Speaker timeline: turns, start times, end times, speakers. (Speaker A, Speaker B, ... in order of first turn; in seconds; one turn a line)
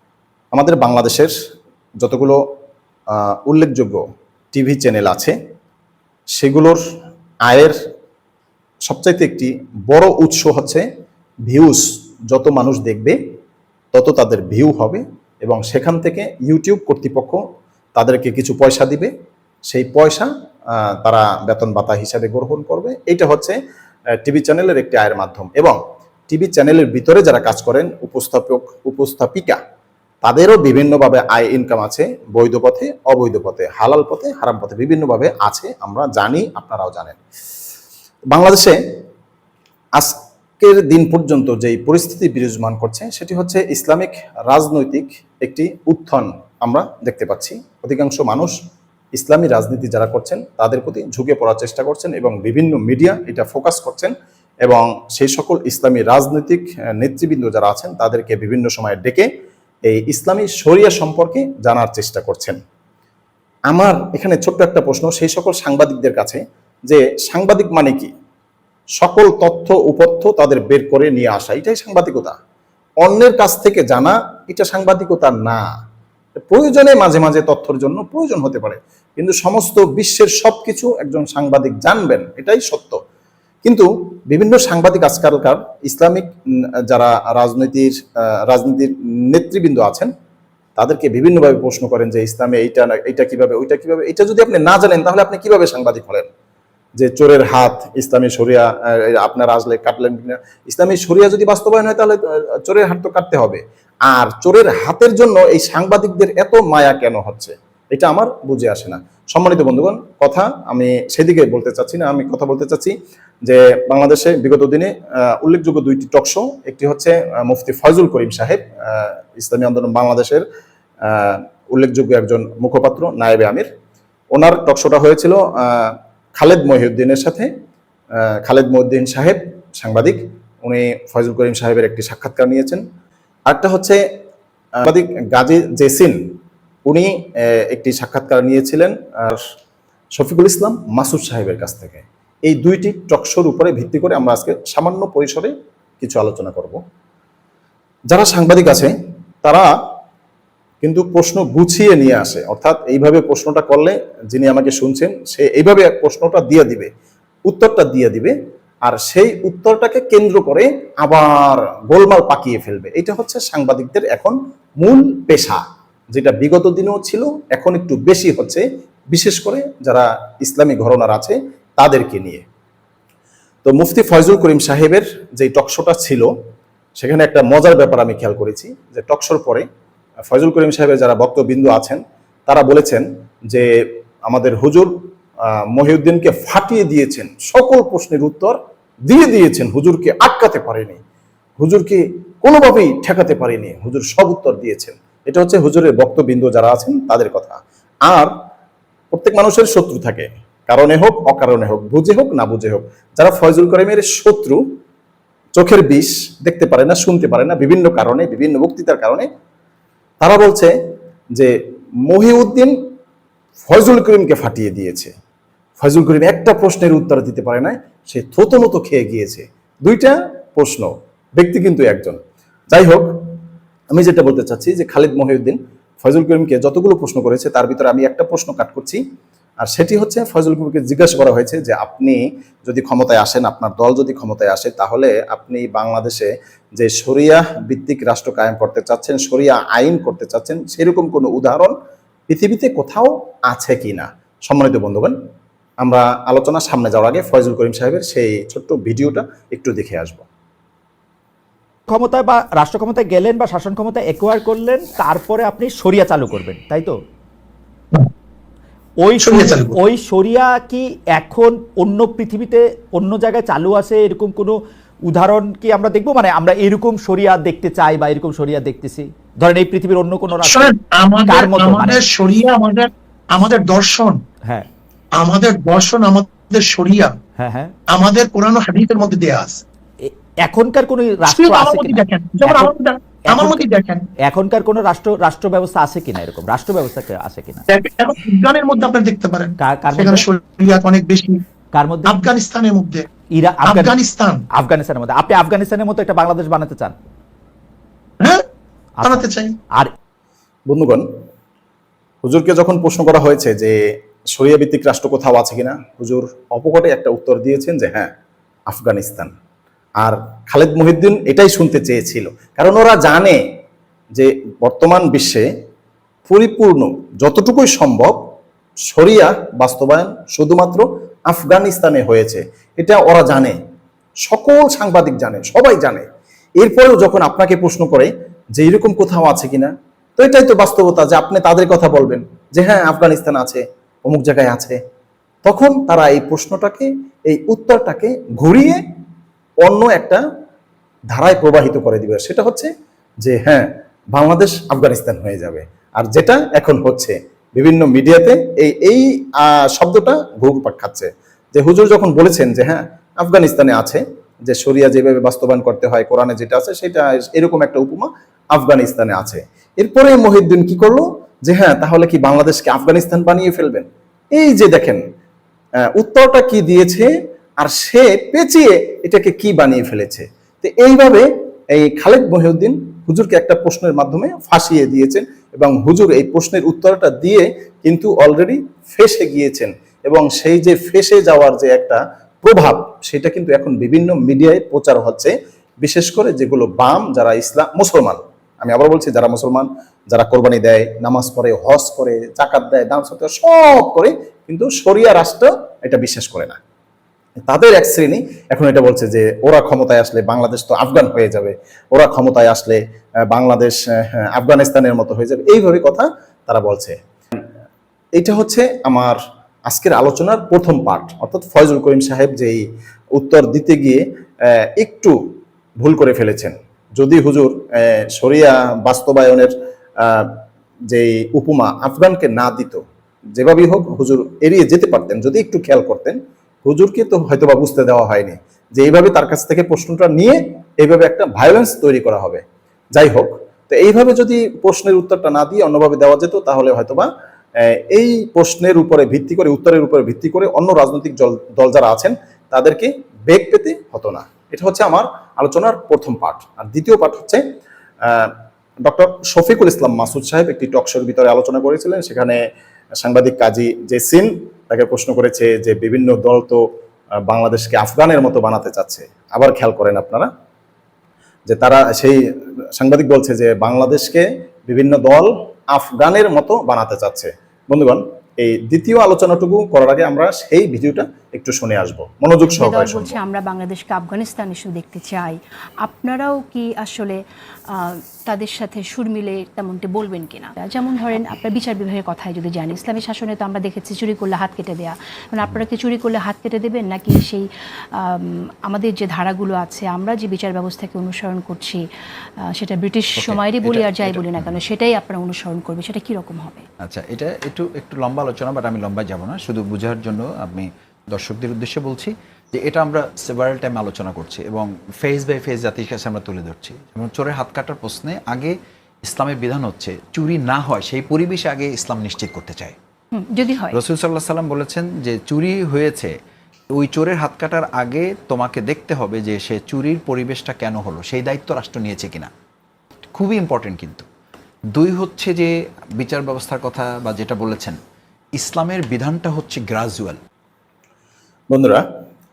Speaker A: 0.5-1.3
Speaker A: 2.0-2.4
Speaker A: 3.5-4.0
Speaker A: 4.5-5.3
Speaker A: 6.4-6.8
Speaker A: 7.5-7.8
Speaker A: 8.9-10.8
Speaker A: 11.5-13.2
Speaker A: 13.9-17.4
Speaker A: 17.9-19.1
Speaker A: 19.7-20.3
Speaker A: 21.0-23.6
Speaker A: 24.2-25.8
Speaker A: 26.3-29.6
Speaker A: 30.2-37.2
Speaker A: 38.3-38.8
Speaker A: 40.0-48.5
Speaker A: 49.1-54.1
Speaker A: 54.6-59.3
Speaker A: 59.9-62.6
Speaker A: 63.7-68.1
Speaker A: 69.0-72.3
Speaker A: 73.0-75.6
Speaker A: 76.5-83.0
Speaker A: 83.6-86.3
Speaker A: 86.9-87.9
Speaker A: 88.5-90.1
Speaker A: 90.8-96.3
Speaker A: 97.0-112.9
Speaker A: 113.5-120.4
Speaker A: 121.0-123.7
Speaker A: 124.3-127.5
Speaker A: 128.4-132.8
Speaker A: 133.5-134.0
Speaker A: 134.8-136.2
Speaker A: 136.9-139.4
Speaker A: 140.2-146.8
Speaker A: 148.1-148.9
Speaker A: 149.4-149.7
Speaker A: 150.8-156.9
Speaker A: 157.5-158.3
Speaker A: 158.8-165.6
Speaker A: 166.1-172.4
Speaker A: 173.6-176.3
Speaker A: 177.0-179.7
Speaker A: 180.3-183.7
Speaker A: 184.3-184.9
Speaker A: 185.7-191.0
Speaker A: 191.6-198.3
Speaker A: 199.1-204.6
Speaker A: 205.6-209.3
Speaker A: 210.2-210.7
Speaker A: 212.1-212.8
Speaker A: 213.7-215.1
Speaker A: 215.8-222.2
Speaker A: 222.7-223.1
Speaker A: 223.9-229.0
Speaker A: 229.6-241.7
Speaker A: 242.3-245.1
Speaker A: 245.8-250.2
Speaker B: 251.9-257.0
Speaker B: 259.0-264.6
Speaker C: 259.2-259.8
Speaker B: 265.1-270.7
Speaker C: 270.4-274.2
Speaker B: 271.2-272.0
Speaker C: 275.1-277.1
Speaker B: 277.4-277.7
Speaker C: 277.9-279.6
Speaker B: 280.0-282.7
Speaker C: 281.2-284.0
Speaker B: 283.3-283.6
Speaker B: 284.2-287.6
Speaker C: 287.7-291.4
Speaker B: 289.6-290.3
Speaker B: 291.7-292.2
Speaker C: 292.1-293.1
Speaker B: 293.3-293.9
Speaker C: 293.6-294.4
Speaker B: 294.5-297.0
Speaker B: 299.0-299.2
Speaker C: 299.0-299.5
Speaker A: 300.7-301.1
Speaker A: 302.2-303.7
Speaker A: 304.4-308.1
Speaker A: 308.7-309.3
Speaker A: 310.0-313.4
Speaker A: 314.1-315.5
Speaker A: 316.3-318.2
Speaker A: 318.9-323.6
Speaker A: 324.3-326.1
Speaker A: 326.6-334.8
Speaker A: 335.4-338.8
Speaker A: 339.6-340.2
Speaker A: 341.1-342.7
Speaker A: 343.2-365.0
Speaker A: 365.9-396.6
Speaker A: 397.5-407.4
Speaker A: 408.2-412.6
Speaker A: 413.1-414.0
Speaker A: 414.6-415.1
Speaker A: 415.8-420.4
Speaker A: 420.9-422.8
Speaker A: 423.4-432.4
Speaker A: 432.9-437.1
Speaker A: 437.7-447.4
Speaker A: 448.1-448.3
Speaker A: 448.8-452.4
Speaker A: 453.0-456.6
Speaker A: 457.3-460.3
Speaker A: 461.5-462.2
Speaker A: 462.8-473.1
Speaker D: 472.5-477.2
Speaker D: 477.7-487.4
Speaker D: 488.0-491.8
Speaker D: 492.6-496.6
Speaker E: 493.1-494.6
Speaker E: 496.8-512.7
Speaker D: 513.1-513.8
Speaker E: 513.7-516.1
Speaker E: 516.7-522.3
Speaker E: 523.1-524.1
Speaker E: 524.7-527.8
Speaker E: 528.4-530.2
Speaker A: 531.5-531.8